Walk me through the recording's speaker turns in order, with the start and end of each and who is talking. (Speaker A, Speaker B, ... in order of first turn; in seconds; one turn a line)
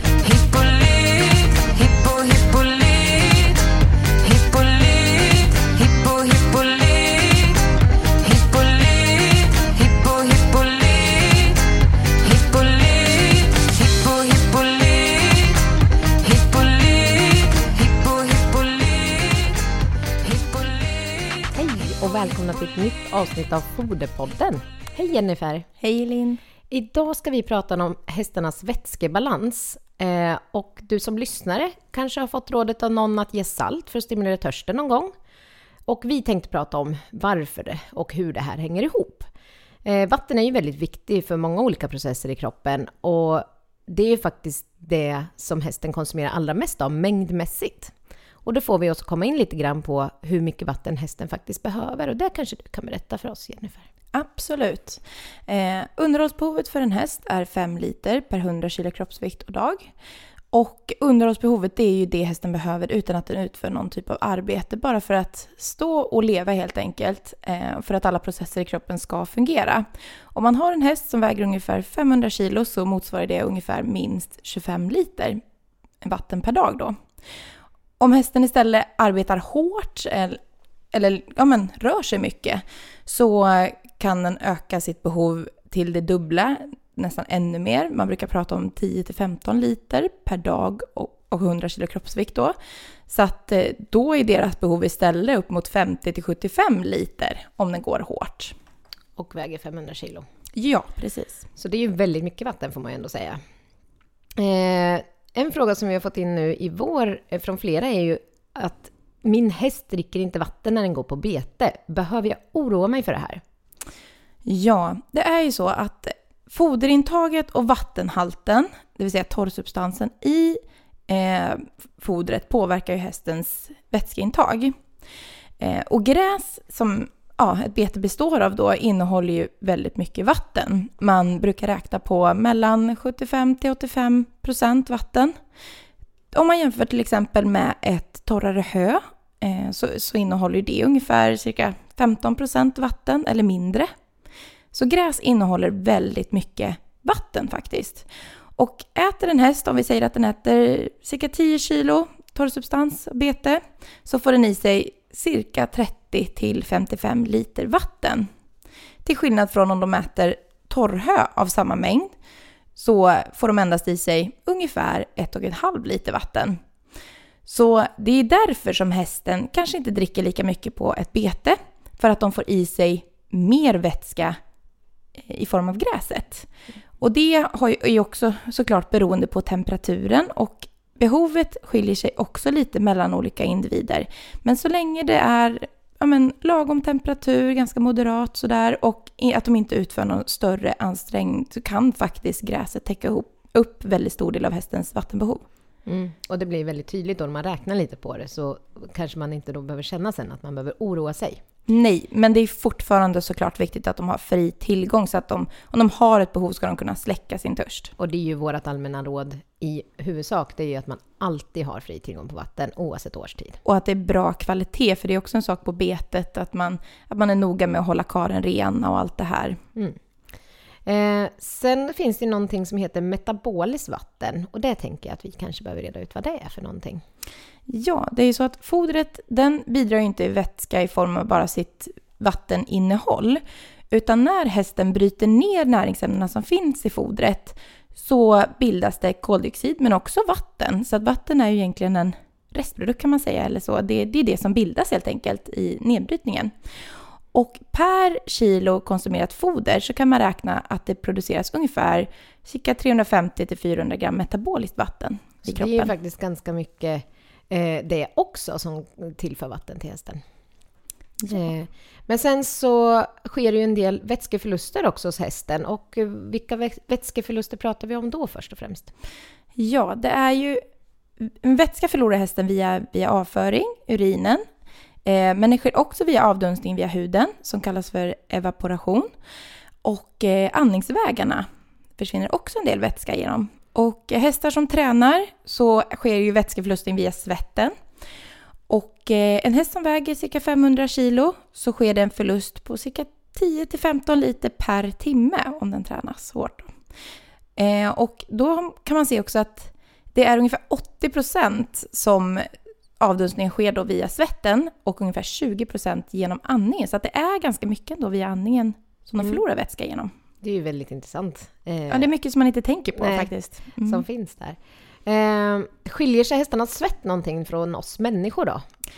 Speaker A: 0.2-3.6
Speaker A: 4.2-7.6
Speaker A: 8.2-11.6
Speaker A: 12.2-15.5
Speaker A: 16.2-19.4
Speaker A: 20.2-20.7
Speaker B: 21.5-25.7
Speaker C: 25.8-26.4
Speaker B: 26.7-35.1
Speaker B: 35.9-39.3
Speaker B: 39.9-47.9
Speaker B: 48.4-53.9
Speaker C: 54.1-59.9
Speaker C: 60.5-75.4
Speaker C: 76.0-77.0
Speaker C: 78.0-80.4
Speaker C: 80.9-92.5
Speaker C: 93.1-98.5
Speaker B: 99.2-100.3
Speaker C: 100.5-101.4
Speaker B: 101.6-103.4
Speaker B: 104.4-113.4
Speaker C: 114.5-124.7
Speaker C: 125.6-135.3
Speaker C: 136.3-143.9
Speaker C: 144.7-148.1
Speaker C: 148.6-158.3
Speaker C: 159.1-162.1
Speaker C: 162.8-166.6
Speaker C: 167.5-174.4
Speaker C: 175.3-176.5
Speaker C: 177.0-195.4
Speaker B: 195.9-201.4
Speaker C: 201.7-207.9
Speaker B: 208.0-213.6
Speaker C: 213.7-219.6
Speaker B: 220.9-227.0
Speaker C: 227.7-246.5
Speaker C: 247.3-255.9
Speaker B: 255.4-260.2
Speaker B: 261.2-268.9
Speaker C: 269.6-270.6
Speaker C: 271.2-274.4
Speaker C: 275.1-279.1
Speaker C: 279.8-281.4
Speaker C: 282.0-287.7
Speaker C: 288.7-296.7
Speaker C: 297.6-302.4
Speaker C: 303.0-310.1
Speaker B: 310.4-312.1
Speaker C: 311.9-314.0
Speaker B: 313.0-318.6